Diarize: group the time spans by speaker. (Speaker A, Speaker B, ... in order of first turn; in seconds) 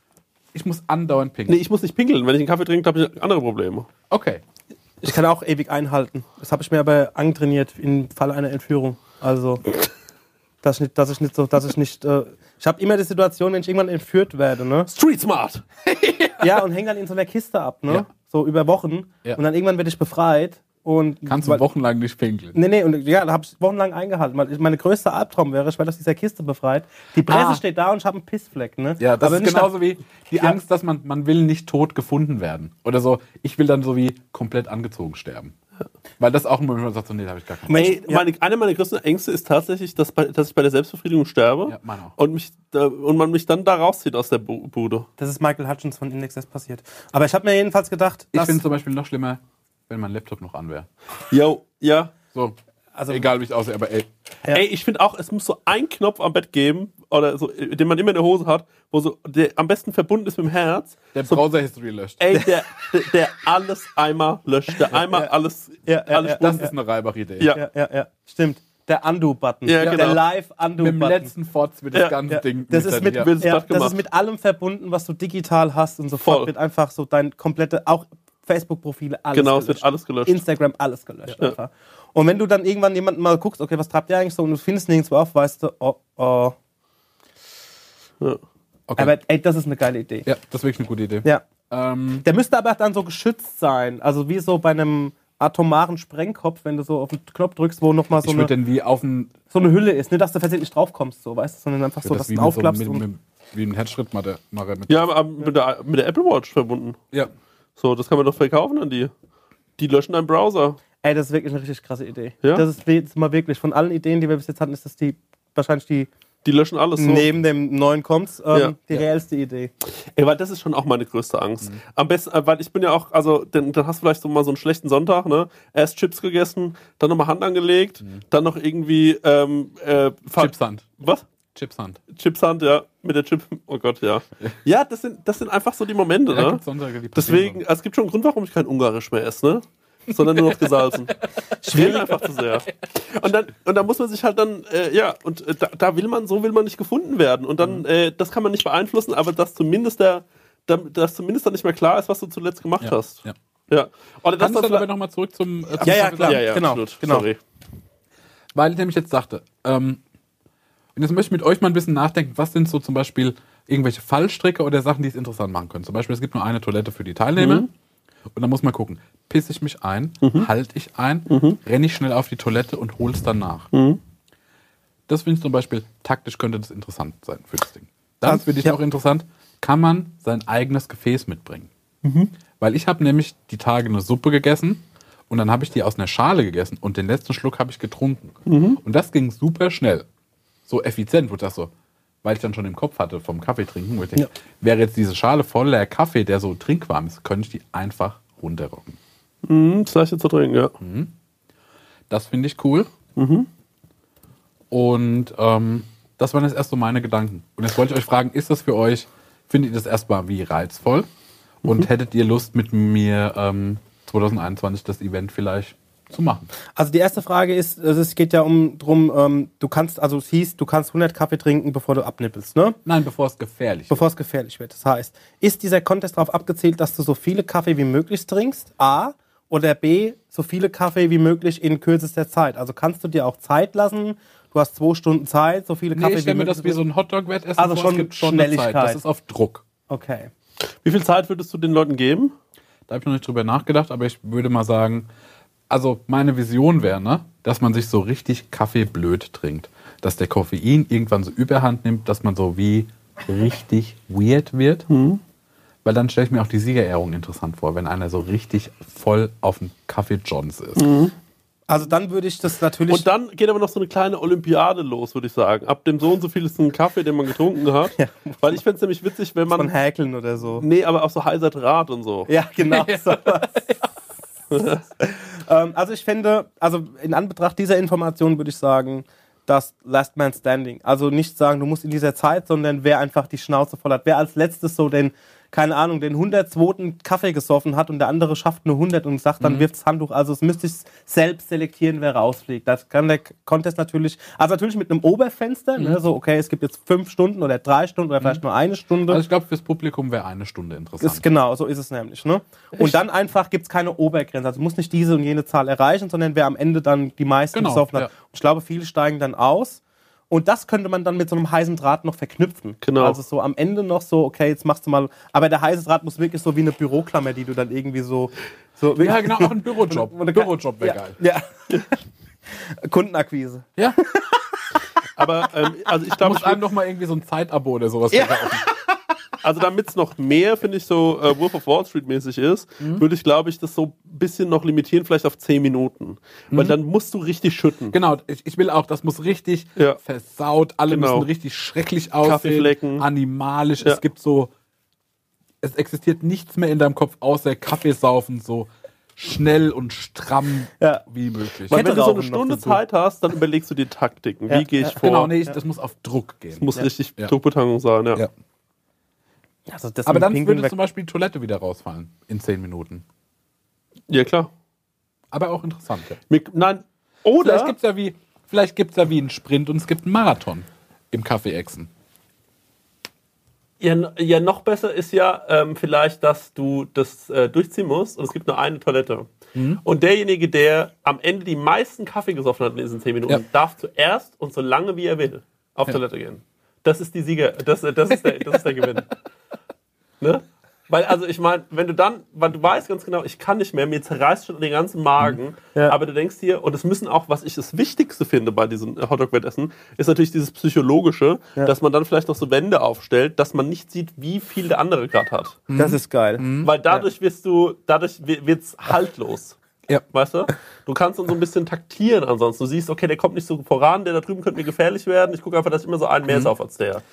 Speaker A: 0.5-1.6, 4.1-4.4, 15.9-16.5, 21.2-22.6, 27.3-27.6, 29.0-35.5, 36.2-37.9, 41.7-42.1, 48.3-50.9, 53.1-54.1, 61.1-62.4, 66.2-67.5, 70.8-73.3, 88.9-89.1, 90.3-92.3, 98.2-99.3, 102.0-105.1, 130.3-130.8, 131.6-132.0, 136.3-137.6, 152.8-153.3, 154.4-156.5, 158.6-160.0, 160.9-167.7, 168.3-173.7, 175.1-181.7, 182.6-190.1, 190.7-191.7, 192.2-199.0, 200.8-201.1, 202.1-202.9, 204.7-211.1, 211.6-216.5, 222.8-224.1, 235.9-239.6, 242.9-245.1, 245.7-254.9, 255.8-260.9, 272.7-273.9, 289.4-289.7, 299.1-301.3, 307.5-308.1, 319.0-321.2, 326.2-328.6, 332.8-333.1, 337.9-344.5, 345.6-351.9, 355.0-356.7, 360.1-363.0, 365.3-366.2, 367.4-371.9, 379.6-379.8, 388.1-388.6, 405.7-406.7
Speaker B: 1.5-3.9, 14.9-15.6, 37.7-45.1, 51.3-52.1, 54.5-61.4, 62.2-66.5, 69.7-70.2, 73.2-74.0, 76.2-76.5, 79.3-80.4, 104.9-107.0, 107.8-109.1, 109.8-110.8, 116.4-117.3, 120.1-131.2, 132.1-136.6, 137.1-141.2, 141.7-154.9, 155.9-157.4, 167.4-167.7, 170.2-170.5, 171.3-171.6, 173.7-174.0, 182.0-182.3, 188.5-188.8, 199.4-200.7, 203.2-203.5, 240.8-242.3, 254.9-255.2, 260.8-261.1, 262.9-269.7, 270.6-272.3, 274.5-274.8, 312.8-313.2, 325.2-326.6, 329.4-337.9, 340.9-341.3, 342.2-343.1, 351.7-355.3, 356.6-358.2, 364.1-364.5, 366.3-367.7, 373.8-379.3, 379.8-389.1, 390.2-405.6, 406.6-409.6, 410.1-417.0
Speaker C: 5.0-9.6, 10.6-14.9, 16.4-21.6, 22.5-29.8, 37.7-38.2, 45.2-48.6, 53.0-53.2, 65.9-66.7, 67.5-71.3, 72.3-86.5, 89.0-90.3, 92.2-98.5, 99.5-103.0, 111.0-116.1, 117.0-119.7, 141.6-142.0, 155.8-157.3, 178.2-178.8, 216.8-222.8, 223.9-236.8, 237.6-239.0, 239.9-240.3, 261.7-263.1, 268.0-268.4, 269.5-270.6, 272.3-273.6, 275.0-299.2, 301.0-321.8, 322.8-324.4, 328.1-328.4, 351.7-352.8, 354.5-355.6, 359.7-360.8, 405.7-407.0